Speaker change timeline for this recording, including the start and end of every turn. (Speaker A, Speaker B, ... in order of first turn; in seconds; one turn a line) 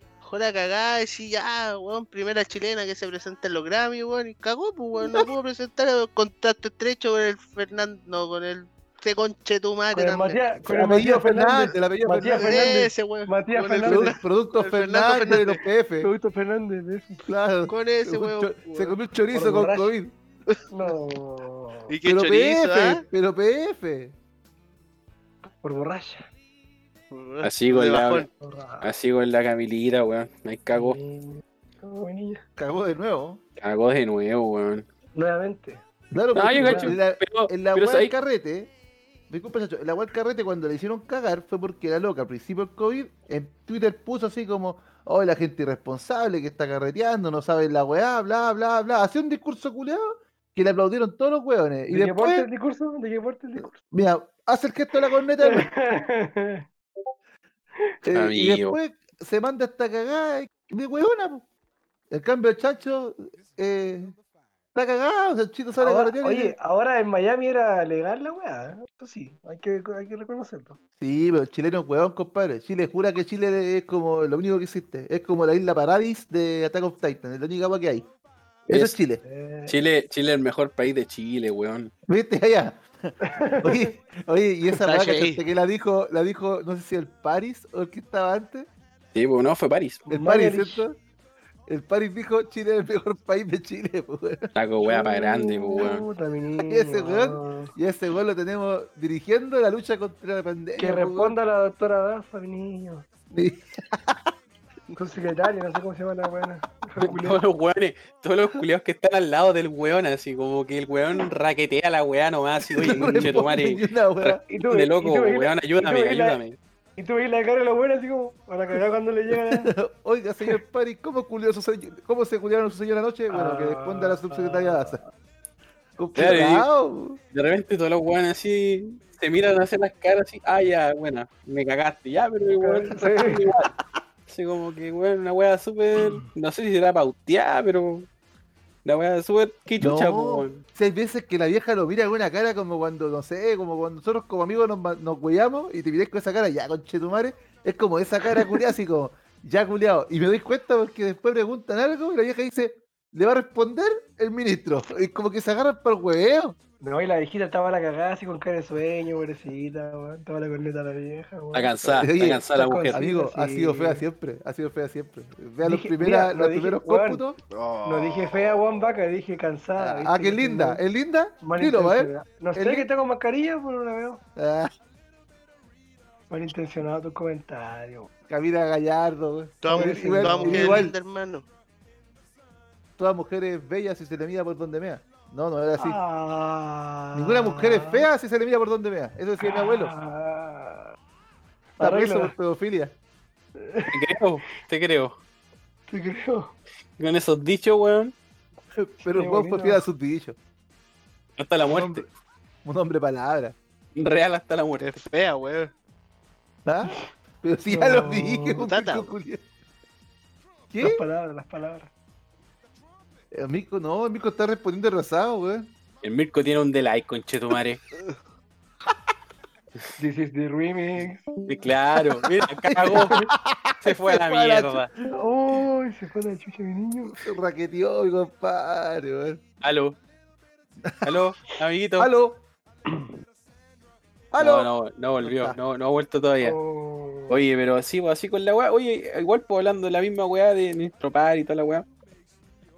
Speaker A: 0.2-10.4
Speaker B: 5.0-5.3
Speaker C: 9.9-14.2
Speaker B: 10.6-12.9
Speaker A: 12.4-15.6
Speaker B: 13.8-16.1
Speaker C: 16.0-17.3
Speaker B: 17.3-20.1
Speaker A: 17.7-19.0
Speaker C: 19.3-19.9
Speaker C: 20.7-21.9
Speaker A: 21.9-23.0
Speaker B: 22.0-24.1
Speaker C: 25.6-26.3
Speaker A: 27.1-28.3
Speaker D: 27.4-28.3
Speaker C: 28.4-28.9
Speaker D: 28.8-31.0
Speaker C: 30.7-32.4
Speaker B: 32.6-33.4
Speaker D: 33.6-34.9
Speaker C: 35.1-35.8
Speaker B: 36.1-38.7
Speaker D: 36.3-38.1
Speaker C: 36.6-37.0
Speaker B: 39.3-52.5
Speaker C: 51.9-53.7
Speaker B: 53.6-55.7
Speaker C: 55.4-56.7
Speaker B: 58.0-61.5
Speaker D: 58.1-58.8
Speaker B: 62.1-64.2
Speaker B: 64.8-66.5
Speaker C: 65.8-70.8
Speaker B: 71.0-78.1
Speaker D: 78.7-79.0
Speaker B: 78.7-79.2
Speaker C: 79.2-79.8
Speaker D: 79.7-81.9
Speaker B: 82.1-88.7
Speaker C: 83.2-83.9
Speaker A: 84.8-85.4
Speaker D: 89.1-90.0
Speaker C: 90.1-90.8
Speaker B: 90.1-91.0
Speaker B: 91.7-94.5
Speaker D: 94.5-96.0
Speaker C: 94.8-97.7
Speaker B: 96.7-101.4
Speaker C: 100.8-103.1
Speaker B: 103.3-104.2
Speaker C: 104.9-107.4
Speaker D: 107.0-116.6
Speaker B: 112.7-114.4
Speaker C: 112.8-113.5
Speaker C: 114.5-116.4
Speaker C: 117.0-119.7
Speaker B: 119.3-125.0
Speaker C: 123.3-125.1
Speaker B: 126.0-127.2
Speaker D: 126.2-126.7
Speaker D: 127.3-133.7
Speaker C: 132.6-133.4
Speaker D: 134.3-138.1
Speaker C: 136.0-136.2
Speaker D: 138.8-140.6
Speaker B: 139.8-156.6
Speaker C: 156.8-161.7
Speaker D: 161.5-163.0
Speaker B: 161.8-167.4
Speaker C: 162.6-164.0
Speaker C: 165.6-167.2
Speaker A: 167.5-168.8
Speaker C: 167.9-170.8
Speaker B: 169.8-172.9
Speaker C: 171.4-174.2
Speaker B: 174.4-174.7
Speaker C: 176.3-178.1
Speaker B: 178.3-180.9
Speaker A: 179.6-181.4
Speaker C: 179.7-180.9
Speaker B: 183.0-186.0
Speaker C: 185.8-188.1
Speaker B: 187.1-189.9
Speaker C: 189.4-190.9
Speaker C: 191.8-192.3
Speaker B: 191.8-192.9
Speaker C: 193.6-194.0
Speaker D: 193.9-195.2
Speaker C: 195.9-196.6
Speaker D: 197.0-198.2
Speaker B: 198.8-200.4
Speaker C: 199.1-199.8
Speaker D: 201.4-202.1
Speaker B: 201.6-202.1
Speaker B: 202.6-203.6
Speaker D: 203.9-205.0
Speaker A: 204.8-205.7
Speaker B: 206.7-209.4
Speaker C: 207.7-208.6
Speaker A: 208.6-209.1
Speaker B: 210.7-211.0
Speaker C: 210.8-211.9
Speaker B: 213.3-215.7
Speaker D: 216.0-217.8
Speaker C: 220.0-221.3
Speaker D: 221.5-223.2
Speaker B: 222.7-225.2
Speaker D: 223.8-224.9
Speaker C: 225.1-227.2
Speaker B: 227.2-229.4
Speaker D: 229.6-230.0
Speaker B: 230.8-231.1
Speaker D: 231.0-232.1
Speaker B: 232.0-232.4
Speaker B: 234.3-234.7
Speaker D: 234.4-236.6
Speaker B: 235.2-235.6
Speaker C: 236.4-237.4
Speaker D: 237.3-241.9